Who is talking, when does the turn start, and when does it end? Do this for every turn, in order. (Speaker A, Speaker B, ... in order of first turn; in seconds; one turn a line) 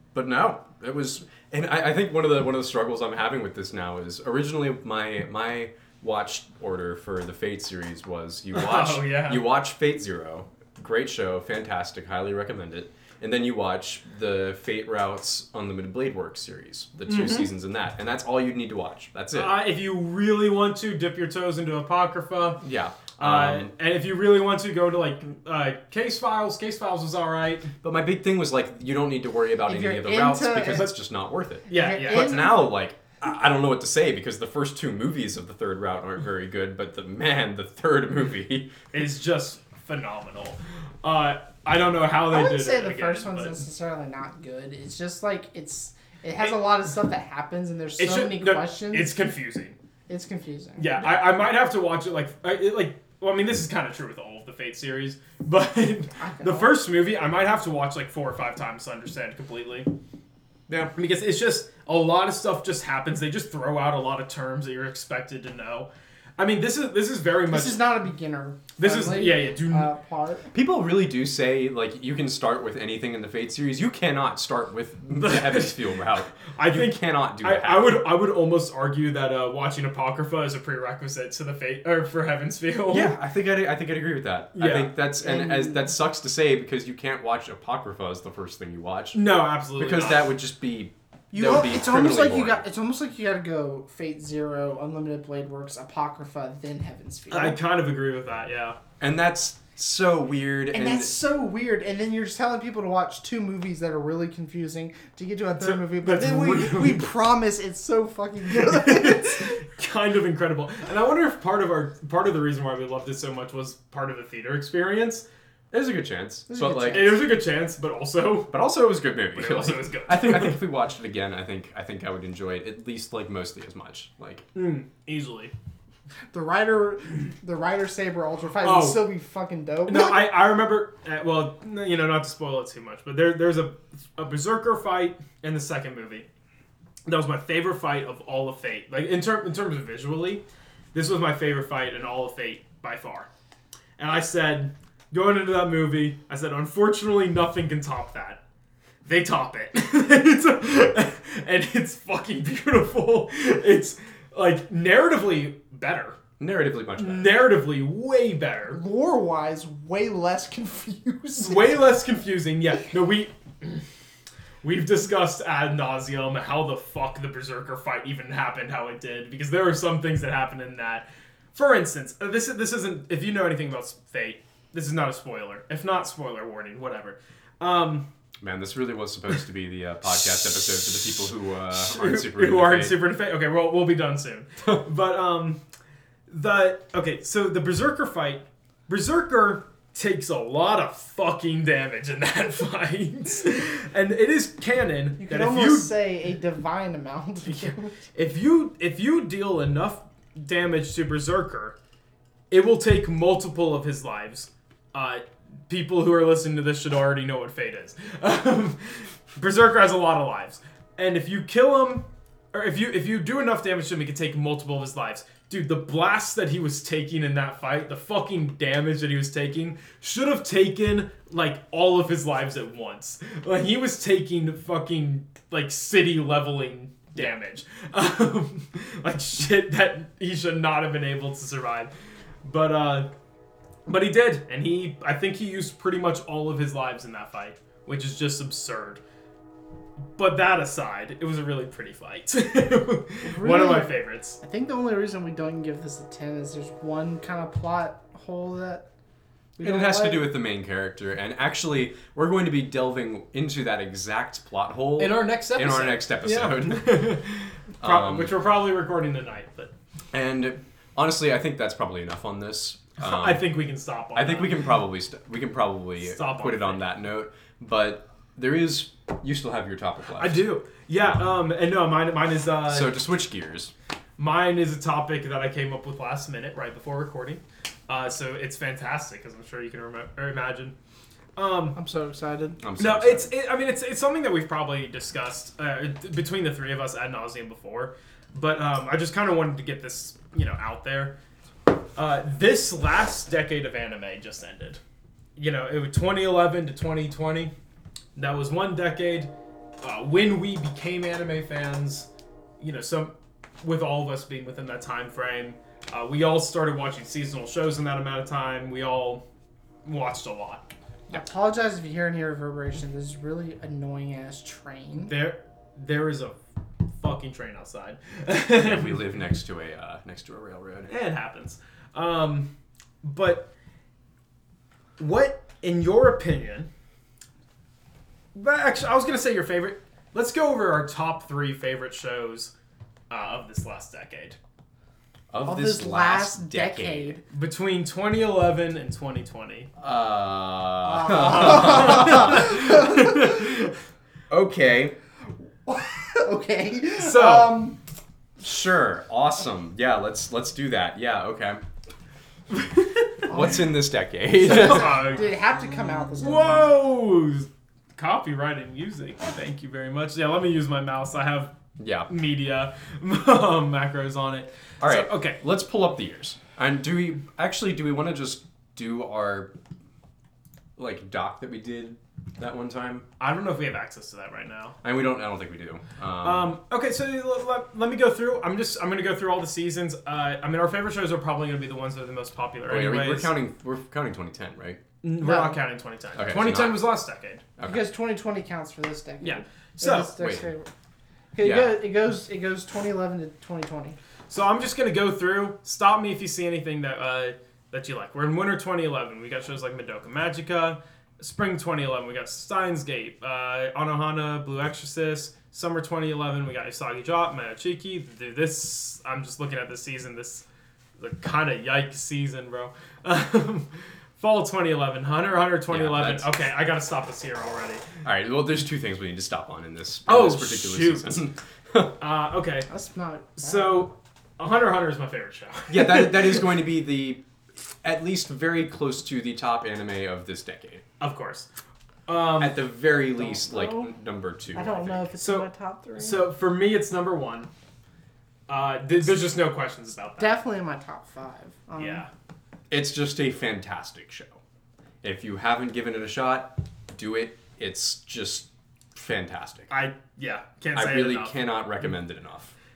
Speaker A: 0.1-19.6
Speaker B: 8.5-9.5
Speaker B: 17.1-17.5
Speaker B: 19.3-22.6
Speaker A: 22.6-23.7
Speaker B: 23.2-27.7
Speaker A: 27.8-38.8
Speaker C: 29.7-30.9
Speaker B: 31.7-32.5
Speaker C: 31.7-32.7
Speaker B: 38.9-43.6
Speaker C: 42.3-49.1
Speaker B: 46.4-46.8
Speaker B: 48.0-49.8
Speaker C: 50.1-51.1
Speaker B: 50.8-59.9
Speaker C: 56.2-56.8
Speaker B: 61.0-68.0
Speaker C: 67.5-70.5
Speaker B: 68.8-69.9
Speaker A: 70.5-78.0
Speaker B: 75.2-83.2
Speaker A: 82.9-89.2
Speaker B: 84.5-84.9
Speaker C: 85.2-85.9
Speaker B: 89.1-90.3
Speaker A: 89.8-92.6
Speaker C: 91.3-97.6
Speaker B: 97.3-98.8
Speaker A: 99.0-101.1
Speaker C: 100.7-109.6
Speaker B: 105.6-107.1
Speaker B: 108.5-115.2
Speaker A: 115.7-117.2
Speaker C: 116.5-117.2
Speaker B: 116.9-118.6
Speaker A: 118.5-124.5
Speaker B: 119.3-120.6
Speaker B: 124.5-125.5
Speaker C: 126.3-130.4
Speaker B: 128.6-129.0
Speaker B: 129.9-136.3
Speaker B: 137.1-143.3
Speaker B: 144.0-148.4
Speaker B: 149.1-156.2
Speaker A: 156.4-157.4
Speaker B: 157.0-158.8
Speaker C: 158.7-161.9
Speaker B: 161.4-163.8
Speaker B: 164.6-178.1
Speaker A: 178.4-183.0
Speaker B: 181.7-185.6
Speaker B: 186.3-195.9
Speaker C: 195.2-197.9
Speaker B: 197.5-201.8
Speaker B: 202.5-231.9
Speaker B: 232.4-233.1
Speaker B: 233.9-239.0
Speaker B: 240.2-244.4
Speaker C: 243.2-248.9
Speaker C: 249.6-250.3
Speaker A: 249.6-257.1
Speaker B: 255.0-259.7
Speaker A: 257.8-258.3
Speaker A: 260.1-263.4
Speaker B: 263.0-264.7
Speaker A: 264.1-270.4
Speaker B: 266.0-266.8
Speaker B: 270.2-273.0
Speaker A: 272.7-273.7
Speaker B: 274.2-280.8
Speaker B: 281.4-281.8
Speaker C: 281.8-282.6
Speaker A: 282.6-283.3
Speaker B: 282.8-291.1
Speaker B: 291.9-294.8
Speaker B: 295.4-297.5
Speaker B: 298.2-299.3
Speaker B: 299.8-302.1
Speaker B: 302.6-309.2
Speaker B: 309.8-310.7
Speaker C: 311.1-315.1
Speaker B: 315.1-316.4
Speaker B: 317.0-319.0
Speaker A: 318.5-320.9
Speaker B: 320.9-322.5
Speaker B: 323.0-323.5
Speaker B: 325.0-326.7
Speaker B: 328.4-332.5
Speaker B: 333.1-334.4
Speaker A: 335.3-337.2
Speaker C: 335.4-337.2
Speaker B: 337.3-339.7
Speaker A: 339.8-342.6
Speaker C: 340.9-343.3
Speaker B: 341.1-343.7
Speaker A: 344.3-344.9
Speaker C: 345.6-347.8
Speaker B: 346.9-347.7
Speaker A: 348.4-351.6
Speaker A: 353.2-355.1
Speaker C: 353.3-353.6
Speaker C: 354.4-356.7
Speaker B: 354.4-355.4
Speaker B: 356.2-361.5
Speaker A: 361.8-362.1
Speaker B: 362.1-365.4
Speaker A: 364.8-369.5
Speaker A: 370.8-373.1
Speaker B: 373.2-374.8
Speaker A: 374.8-376.5
Speaker B: 376.2-383.3
Speaker A: 382.7-384.8
Speaker B: 385.0-387.4
Speaker C: 385.2-385.6
Speaker A: 386.2-386.8
Speaker A: 387.6-387.8
Speaker C: 387.7-390.7
Speaker B: 389.2-390.1
Speaker A: 390.2-390.5
Speaker C: 391.4-394.0
Speaker A: 391.4-391.8
Speaker B: 394.3-410.4
Speaker B: 411.0-417.9
Speaker A: 415.7-416.3
Speaker A: 418.0-421.9
Speaker B: 420.1-421.2
Speaker B: 422.0-422.7
Speaker C: 422.7-423.9
Speaker B: 423.4-426.5
Speaker A: 425.7-427.2
Speaker A: 427.8-430.8
Speaker B: 431.0-431.5
Speaker B: 432.1-432.7
Speaker A: 432.4-435.1
Speaker C: 433.1-433.9
Speaker C: 434.5-436.2
Speaker B: 435.2-437.5
Speaker B: 438.5-440.4
Speaker C: 440.2-442.1
Speaker B: 441.8-442.1
Speaker A: 442.7-444.4
Speaker A: 445.0-449.7
Speaker B: 449.7-451.4
Speaker A: 450.7-452.5